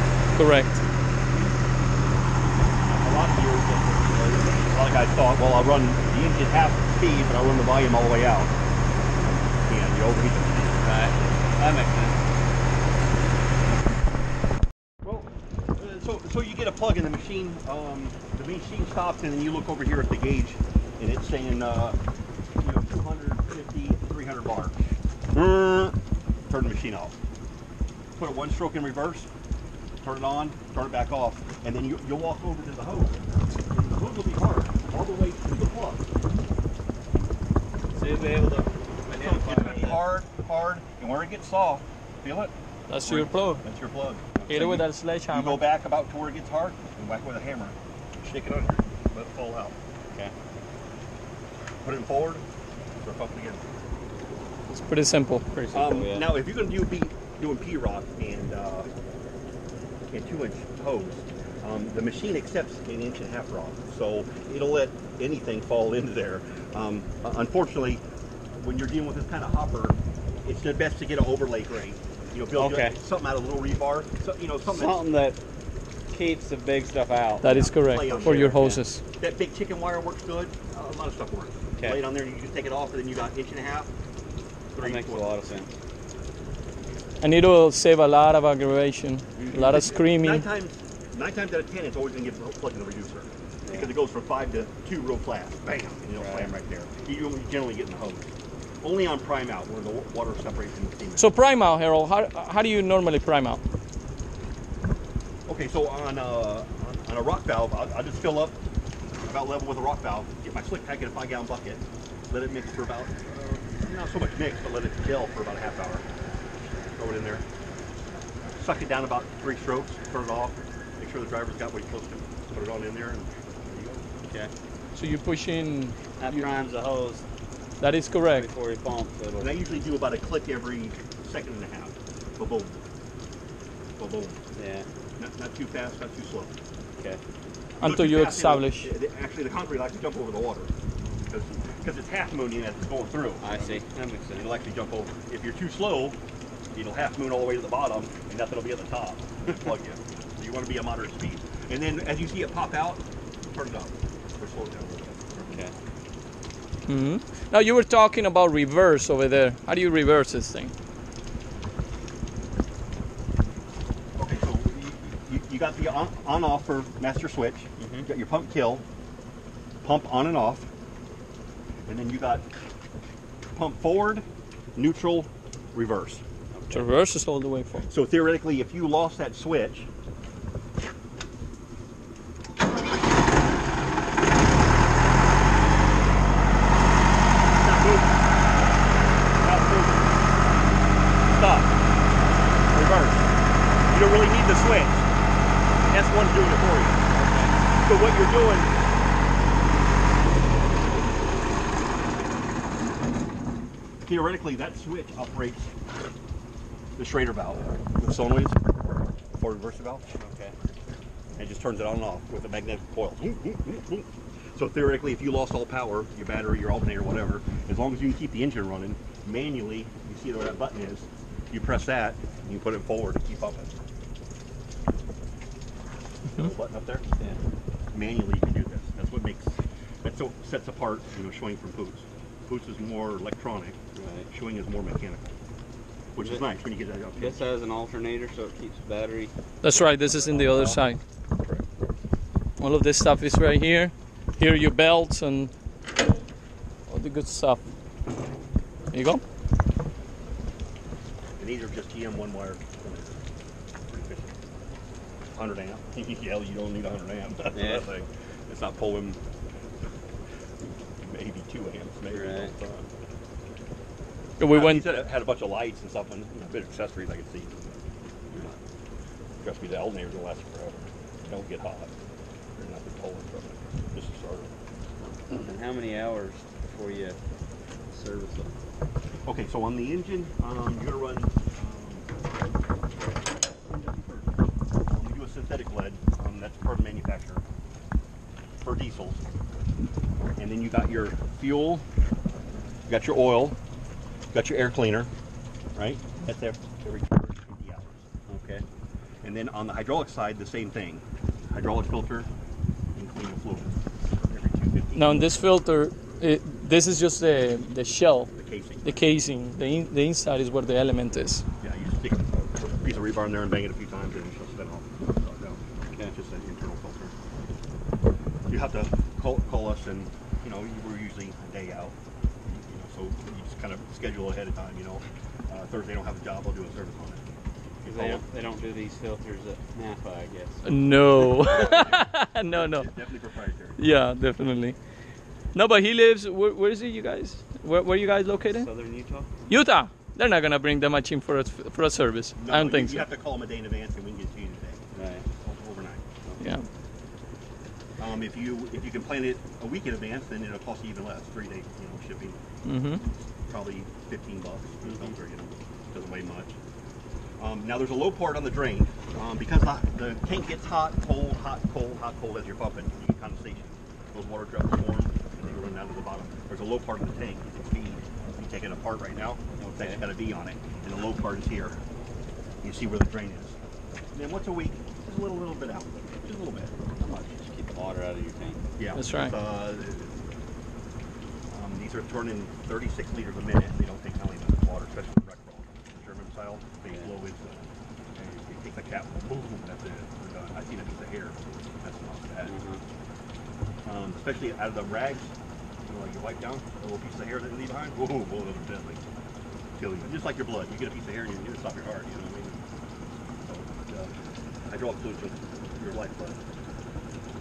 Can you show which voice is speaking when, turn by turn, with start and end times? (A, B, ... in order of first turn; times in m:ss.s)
0:00.4-0:00.8 A
0:02.9-0:08.6 B
0:09.6-0:11.2 B
0:10.8-0:12.2 C
0:15.0-0:22.0 B
0:22.6-0:24.8 B
0:25.3-0:26.0 B
0:26.5-0:27.2 B
0:28.2-0:29.3 B
0:30.0-0:36.1 B
0:38.0-0:40.0 C
0:39.2-0:49.8 B
0:42.9-0:43.6 A
0:44.5-0:45.6 A
0:51.8-0:52.4 B
0:53.0-0:53.6 B
0:54.7-0:55.5 A
0:55.5-0:56.3 C
0:55.7-0:58.9 B
1:00.1-1:08.0 B
1:08.6-1:15.0 B
1:12.5-1:13.0 C
1:14.7-1:15.4 C
1:16.1-1:18.8 C
1:17.4-1:19.0 A
1:17.5-1:18.6 B
1:19.2-1:23.9 B
1:24.7-1:25.3 B
1:24.8-1:25.7 C
1:27.2-1:30.4 A
1:29.4-1:29.8 C
1:29.5-1:41.3 B
1:33.6-1:33.9 C
1:36.2-1:36.5 C
1:41.2-1:43.6 A
1:45.5-1:48.6 B
1:49.2-1:56.0 B
1:56.9-1:57.5 B
1:58.6-2:04.0 B
2:04.3-2:04.5 C
2:04.9-2:06.5 A
2:06.2-2:07.3 C
2:07.8-2:08.5 A
2:08.3-2:09.6 C
2:09.4-2:12.8 B
2:14.0-2:14.4 B
2:14.6-2:14.9 C
2:15.2-2:16.5 B
2:17.0-2:17.2 C
2:17.8-2:20.7 B
2:17.8-2:18.9 A
2:21.3-2:23.8 B
2:23.4-2:24.5 C
2:24.4-2:26.2 B
2:26.7-2:35.6 B
2:35.4-2:35.8 C
2:36.9-2:40.7 A
2:44.2-2:48.8 B
2:47.8-2:48.1 C
2:49.8-2:50.7 B
2:51.9-2:52.5 B
2:53.6-2:54.2 B
2:54.8-2:56.2 B
2:56.5-2:56.9 C
2:56.7-2:57.9 A
2:57.9-2:59.9 B
3:07.5-3:08.2 B
3:09.4-3:10.3 B
3:11.2-3:11.8 B
3:12.7-3:13.3 B
3:13.9-3:15.1 B
3:15.9-3:17.1 B
3:17.1-3:17.6 C
3:17.8-3:18.8 B
3:24.0-3:25.7 B
3:27.0-3:30.0 B
3:30.2-3:30.6 C
3:31.4-3:43.8 B
3:46.3-3:47.1 B
3:47.9-3:53.8 B
3:54.0-3:54.3 C
3:54.3-3:55.4 B
3:56.2-3:57.4 B
3:57.2-4:00.8 C
3:59.6-4:01.0 A
4:01.4-4:01.6 B
4:02.6-4:05.5 A
4:06.9-4:07.6 A
4:08.9-4:09.2 A
4:11.4-4:13.2 B
4:13.9-4:14.4 B
4:15.4-4:19.2 B
4:17.5-4:17.9 C
4:21.0-4:22.9 B
4:22.1-4:22.5 C
4:24.4-4:24.9 A
4:24.4-4:27.7 B
4:29.4-4:31.9 B
4:32.6-4:34.5 B
4:35.3-4:37.2 C
4:37.9-4:38.6 C
4:39.2-4:42.1 B
4:43.3-4:47.4 B
4:48.6-4:49.2 B
4:50.4-4:51.8 B
4:52.9-4:53.6 B
4:54.3-4:55.1 B
4:55.8-4:58.0 B
4:58.3-4:58.6 C
4:59.2-5:02.3 B
5:03.0-5:05.3 B
5:05.0-5:08.3 A
5:08.4-5:09.0 B
5:08.8-5:11.4 A
5:11.6-5:12.3 B
5:12.8-5:17.1 B
5:18.5-5:27.2 B
5:27.8-5:28.2 B
5:27.8-5:30.7 C
5:30.7-5:32.9 A
5:31.5-5:33.8 B
5:33.8-5:34.8 A
5:35.5-5:38.7 A
5:38.4-5:39.3 C
5:39.5-5:43.1 A
5:42.4-5:44.8 B
5:44.9-5:45.3 C
5:45.4-5:46.0 B
5:46.3-5:46.5 C
5:48.0-5:52.4 B
5:52.6-5:53.0 A
5:53.5-5:56.6 B
5:54.8-5:55.1 C
5:57.4-6:11.8 B
6:09.6-6:10.1 C
6:12.6-6:13.6 B
6:14.1-6:17.0 B
6:17.0-6:18.6 C
6:18.8-6:20.2 B
6:19.0-6:19.4 A
6:21.5-6:32.5 B
6:32.5-6:32.8 C
6:33.8-6:39.0 B
6:39.8-6:42.7 B
6:43.4-6:44.1 B
6:44.7-6:46.4 B